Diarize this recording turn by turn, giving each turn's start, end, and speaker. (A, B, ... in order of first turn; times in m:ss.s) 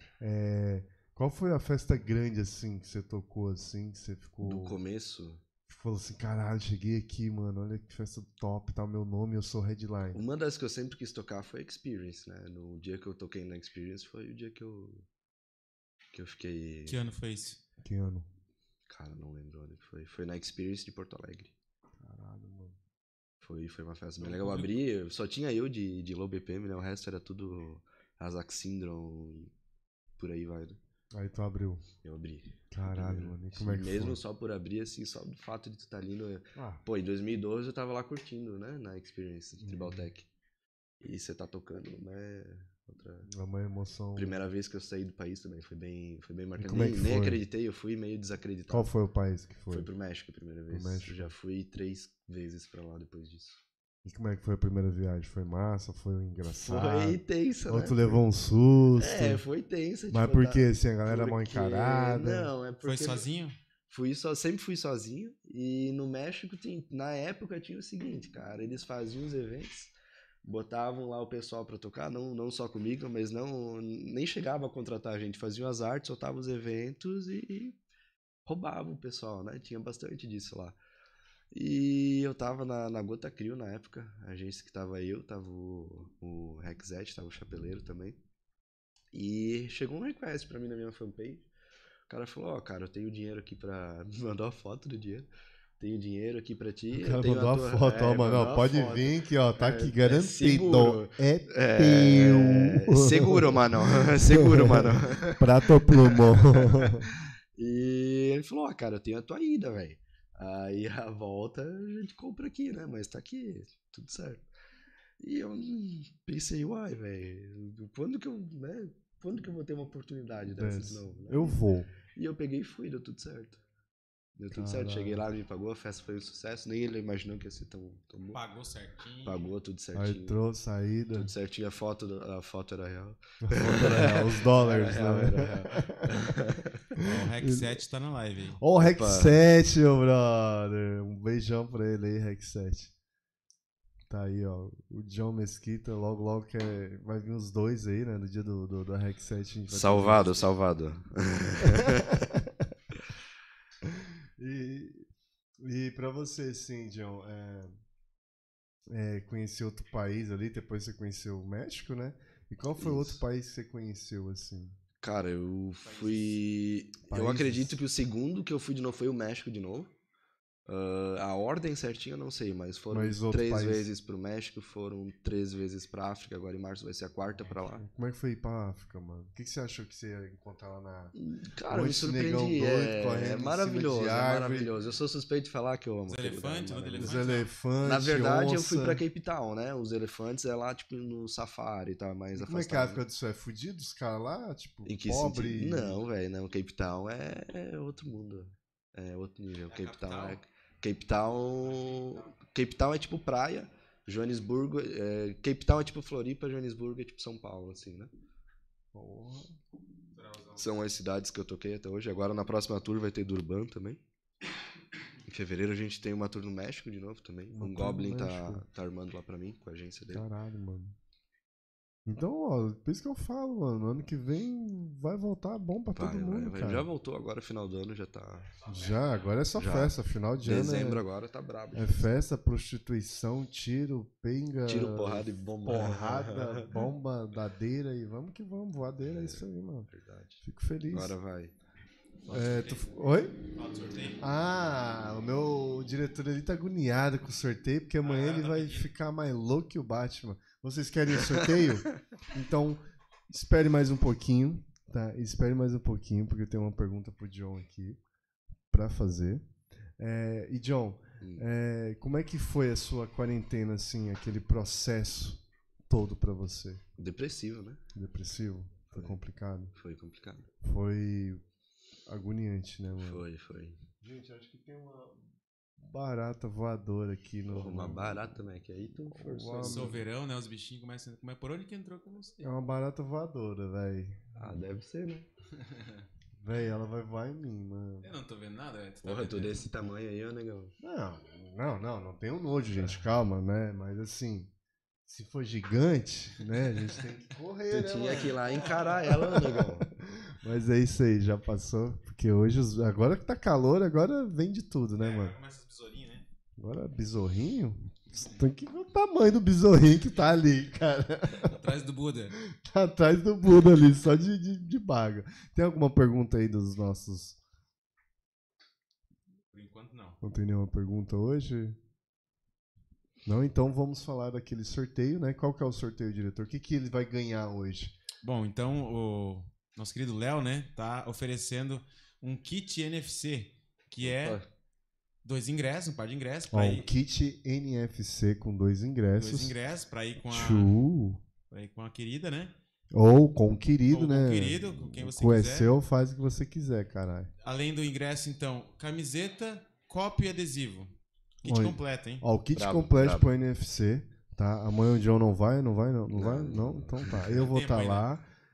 0:00.2-0:04.8 A
0:04.4-0:05.4 B
0:05.7-0:10.2 A
0:10.1-0:15.0 B
0:16.1-0:17.0 B
0:16.9-0:17.6 C
0:17.8-0:18.3 A
0:18.9-0:21.5 B
0:22.0-0:22.8 A
0:23.4-0:29.5 B
0:24.2-0:24.7 C
0:30.2-0:30.8 B
0:31.1-0:31.8 A
0:32.0-0:40.3 B
0:32.7-0:34.2 A
0:36.6-0:36.8 A
0:39.6-0:40.1 A
0:41.0-0:43.3 B
0:43.3-0:44.4 A
0:44.2-0:48.9 B
0:46.6-0:47.4 A
0:48.7-0:49.9 A
0:49.7-0:53.6 B
0:50.7-0:51.3 A
0:54.0-0:59.4 A
0:56.7-0:58.2 B
0:59.0-1:03.2 B
1:00.1-1:02.5 A
1:02.8-1:03.6 C
1:03.9-1:09.9 B
1:10.4-1:17.8 B
1:18.5-1:20.8 B
1:21.5-1:28.2 B
1:29.1-1:31.5 B
1:32.1-1:54.5 B
1:36.9-1:47.1 A
1:55.2-2:03.6 B
2:00.6-2:01.9 A
2:04.4-2:08.4 B
2:04.5-2:05.2 A
2:08.3-2:09.4 C
2:09.2-2:10.4 B
2:09.9-2:11.3 A
2:11.2-2:16.8 B
2:13.4-2:16.3 A
2:17.0-2:17.8 A
2:17.0-2:18.6 C
2:18.6-2:22.9 A
2:18.8-2:19.4 B
2:24.1-2:30.6 A
2:29.7-2:32.3 B
2:31.6-2:32.7 A
2:33.8-2:35.1 A
2:35.6-2:37.8 A
2:38.9-2:44.8 A
2:42.8-2:43.2 B
2:45.0-2:49.9 B
2:45.8-2:46.4 C
2:47.1-2:47.8 A
2:50.7-2:57.8 B
2:52.9-2:53.9 A
2:57.7-3:01.1 A
3:01.2-3:07.2 B
3:01.7-3:04.7 A
3:06.1-3:07.5 C
3:07.0-3:09.0 A
3:07.8-3:13.0 B
3:12.4-3:16.0 A
3:14.9-3:28.1 B
3:19.7-3:20.4 C
3:21.6-3:22.3 C
3:28.9-3:29.6 A
3:30.1-3:30.7 C
3:30.6-3:34.0 B
3:35.3-3:40.2 B
3:37.5-3:38.6 A
3:40.1-3:41.0 A
3:42.1-3:46.9 A
3:45.9-3:48.5 B
3:48.6-3:51.0 A
3:49.6-3:52.1 B
3:51.7-3:59.9 A
3:54.7-3:56.8 B
3:59.0-4:01.6 B
4:00.4-4:01.2 A
4:02.3-4:03.4 A
4:02.3-4:02.9 C
4:03.5-4:04.2 C
4:04.2-4:18.0 A
4:08.0-4:08.9 C
4:11.3-4:11.9 B
4:18.7-4:19.4 A
4:20.0-4:26.8 A
4:21.2-4:21.5 B
4:27.0-4:27.8 B
4:27.9-4:29.8 A
4:28.9-4:29.2 B
4:29.8-4:30.5 B
4:30.6-4:31.4 A
4:32.1-4:33.2 A
4:33.0-4:33.8 B
4:34.0-4:35.2 A
4:35.8-4:40.1 A
4:37.5-4:40.0 B
4:39.7-4:42.4 C
4:42.4-4:44.6 A
4:44.4-4:45.3 B
4:45.8-4:46.0 C
4:46.4-4:48.2 A
4:48.0-4:49.6 C
4:49.0-4:50.7 B
4:50.8-4:54.5 A
4:55.0-5:05.4 A
4:57.7-4:59.9 B
4:58.2-4:59.1 C
5:05.0-5:06.3 C
5:06.6-5:11.6 A
5:11.4-5:12.4 C
5:12.4-5:17.4 A
5:19.5-5:20.2 C
5:20.2-5:21.8 A
5:23.2-5:28.0 A
5:28.2-5:34.4 C
5:34.0-5:34.5 B
5:35.2-5:36.9 C
5:36.5-5:39.6 A
5:39.2-5:40.7 C
5:40.2-5:41.2 A
5:41.5-5:42.6 C
5:42.9-5:47.3 A
5:43.9-5:45.7 C
5:47.4-5:50.9 C
5:51.4-5:52.2 C
5:51.4-5:58.3 A
5:52.5-5:53.3 B
5:56.1-5:57.3 B
5:57.2-5:58.1 C